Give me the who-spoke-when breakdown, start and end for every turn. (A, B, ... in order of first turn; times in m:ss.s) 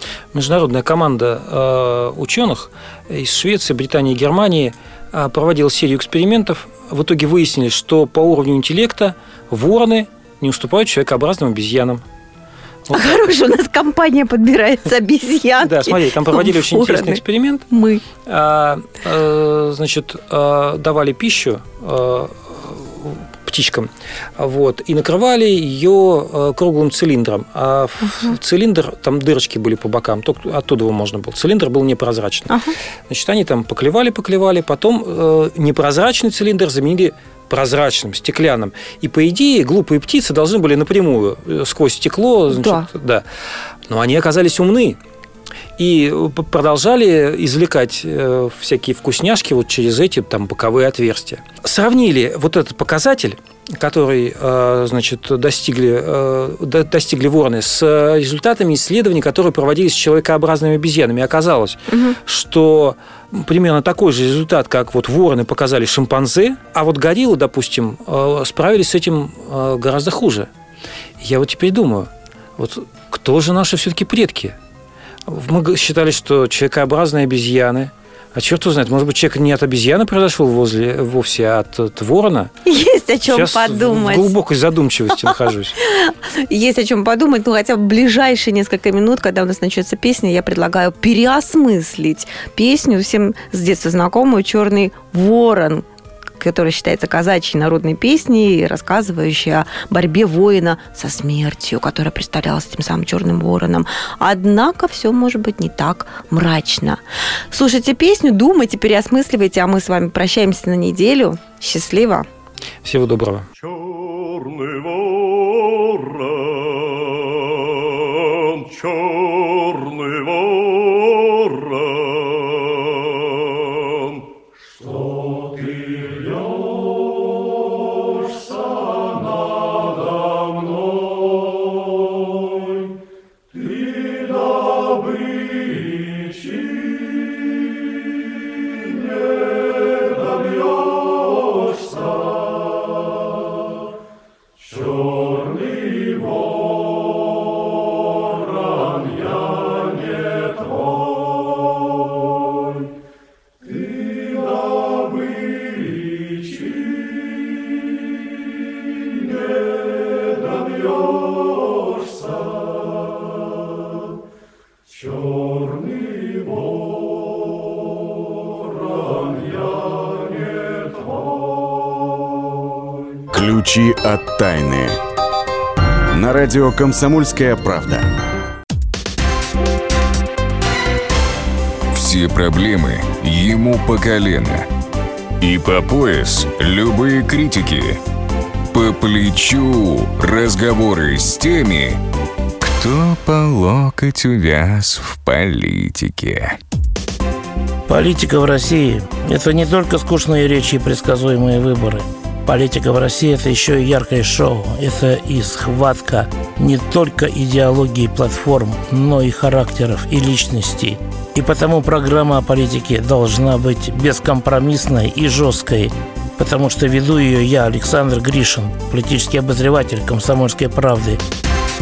0:00.3-0:12.0 A
0:12.9-0:13.2 A
0:12.9-0:18.0 B
0:15.6-0:17.7 A
0:18.2-0:32.5 A
0:32.5-0:32.8 B
0:33.1-0:43.2 A
0:42.5-0:42.8 B
0:43.9-0:45.0 A
0:45.8-1:10.5 A
1:01.9-1:02.2 B
1:11.2-1:14.6 A
1:15.3-1:22.5 A
1:22.6-1:24.3 B
1:23.2-1:25.7 A
1:25.8-1:35.9 B
1:36.4-1:52.2 B
1:52.8-1:53.5 A
2:53.3-2:55.0 C
2:56.1-2:58.1 C
3:01.9-3:04.7 D
3:05.4-3:08.0 D
3:08.7-3:12.0 D
3:12.6-3:16.6 D
3:17.9-3:41.2 E